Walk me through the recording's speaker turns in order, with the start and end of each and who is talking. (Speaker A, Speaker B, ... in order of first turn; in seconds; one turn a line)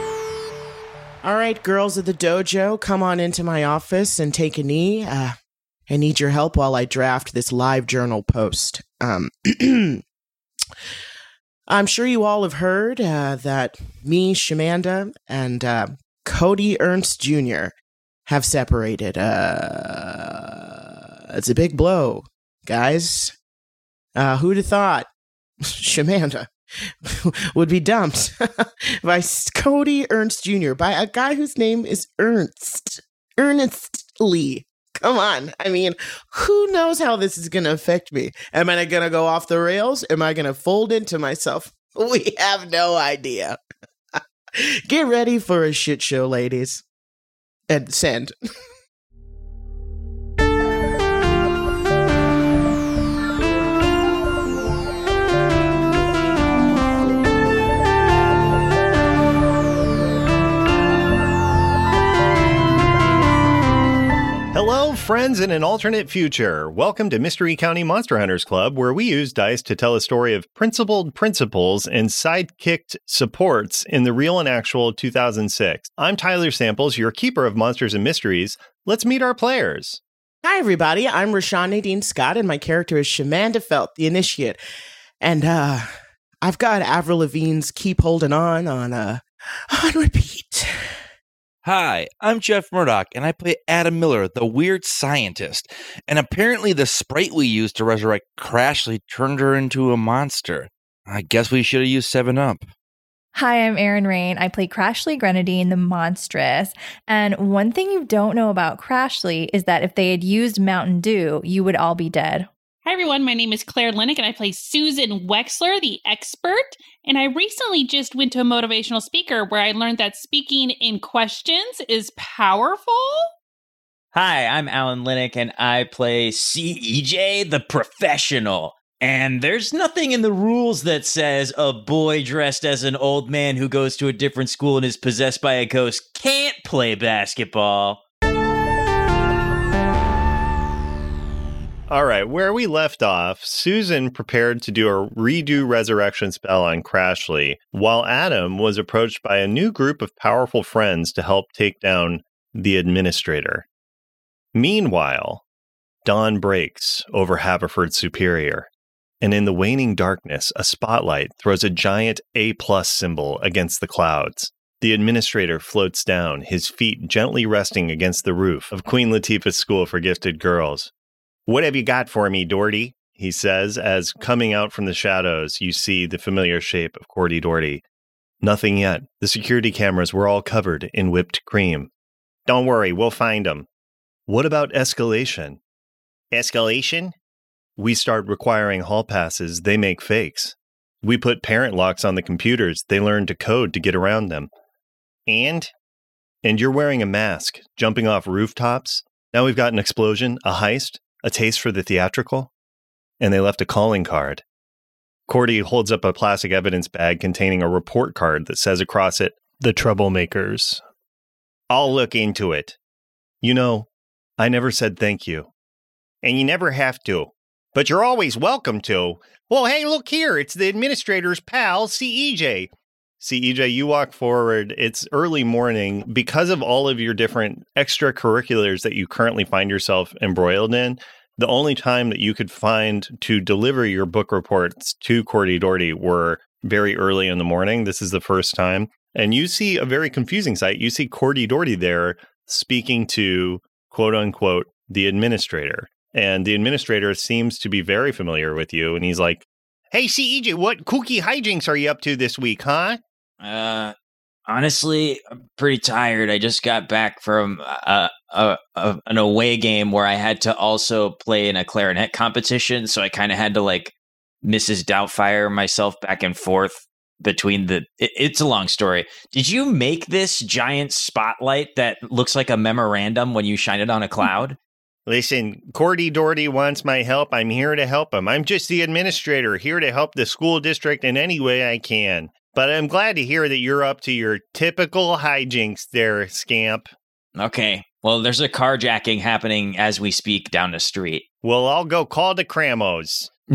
Speaker A: 1.2-5.3
Speaker A: 5.9-10.0
Speaker A: 11.7-17.7
Speaker A: 18.2-23.3
Speaker A: 24.1-25.1
Speaker A: 25.7-26.5
Speaker A: 27.1-43.6
Speaker A: 44.1-46.8
Speaker A: 47.7-48.3
Speaker B: 64.5-80.0
Speaker A: 80.4-84.6
Speaker A: 85.2-85.9
Speaker A: 86.4-90.7
Speaker C: 91.6-102.7
Speaker D: 103.3-112.5
Speaker E: 112.8-123.3
Speaker F: 124.1-138.0
Speaker B: 141.9-153.7
Speaker B: 154.5-155.4
Speaker B: 156.0-158.7
Speaker B: 159.2-170.9
Speaker B: 171.5-177.8
Speaker B: 178.4-181.9
Speaker B: 182.4-183.7
Speaker B: 184.3-185.6
Speaker B: 186.3-187.1
Speaker B: 187.8-194.5
Speaker B: 195.3-195.7
Speaker B: 196.4-202.5
Speaker B: 203.2-204.4
Speaker B: 205.3-210.8
Speaker B: 211.7-212.8
Speaker B: 213.4-213.9
Speaker B: 214.4-215.5
Speaker B: 216.2-222.7
Speaker B: 223.2-253.0
Speaker F: 253.4-253.9
Speaker F: 254.5-274.6
Speaker B: 275.1-286.9
Speaker F: 287.4-291.2
Speaker B: 291.4-293.3